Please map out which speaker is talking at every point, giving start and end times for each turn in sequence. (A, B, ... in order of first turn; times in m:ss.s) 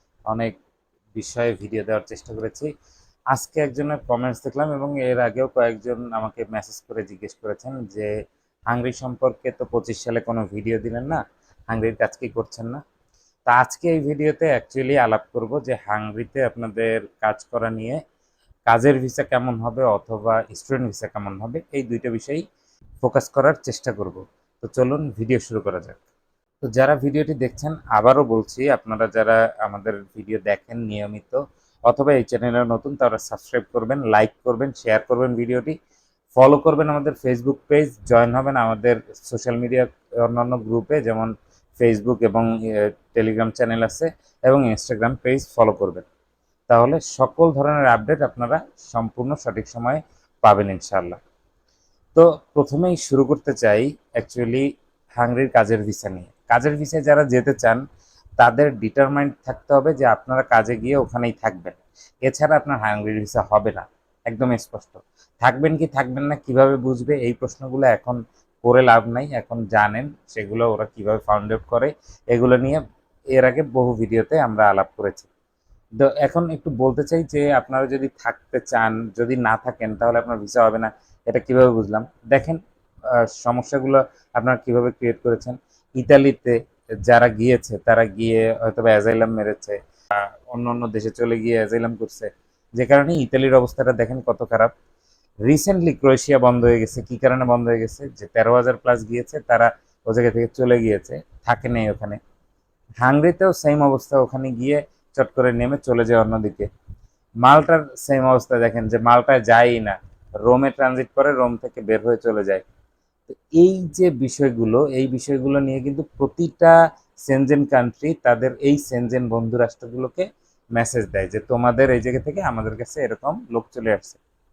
0:00.3-0:00.6 A
0:01.2-0:02.7 A
0:03.3-0:08.1 A
0:08.7-0:12.8 A
0:13.5-0:18.0 A
0:18.7-0:22.4 A
0:23.0-0:26.0 A
0:26.7-0:35.8 A
0:36.4-0:46.0 A
0:46.7-0:51.2 A
0:52.2-0:54.6 A
0:55.2-0:57.8 A
0:58.4-1:12.8 A
1:13.3-1:15.3 A
1:16.0-1:22.6 A
1:23.2-1:34.7 A
1:35.4-1:42.2 A
1:43.0-1:46.7 A
1:47.4-1:52.6 A
1:53.3-2:00.2 A
2:00.8-2:04.2 A